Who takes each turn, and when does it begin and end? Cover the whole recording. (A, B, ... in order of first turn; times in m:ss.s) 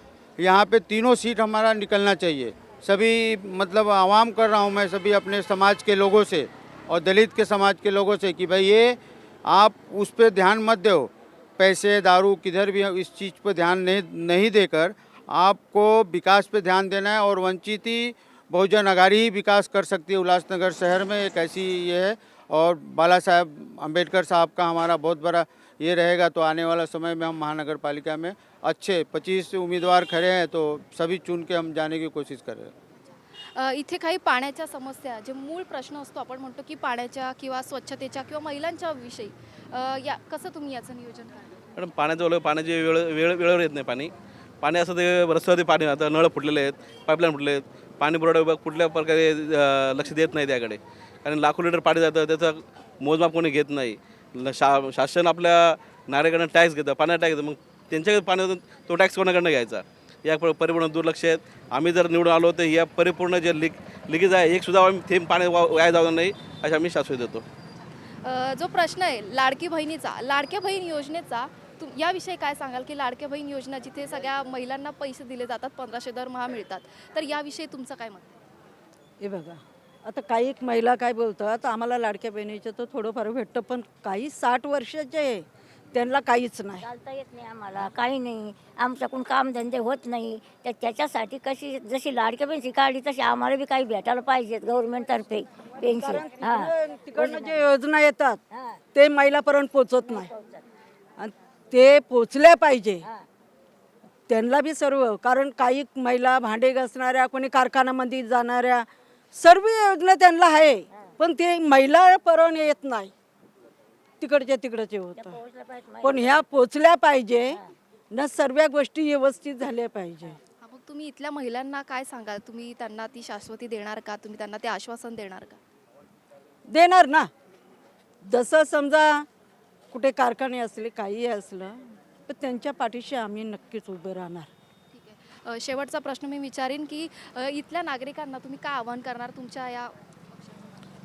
0:00.4-0:32.7 A
0:33.5-0:41.6 B
0:41.8-1:07.4 C
1:08.1-1:18.4 B
1:19.2-1:26.9 D
1:26.8-1:37.6 E
1:35.7-1:40.3 D
1:40.1-1:40.6 E
1:41.2-1:43.1 D
1:44.3-1:53.1 D
1:54.2-1:55.4 D
1:55.1-1:56.4 E
1:56.0-2:00.4 D
2:00.6-2:05.6 B
2:06.7-2:07.3 D
2:08.2-2:09.2 D
2:09.9-2:14.5 D
2:14.9-2:20.7 B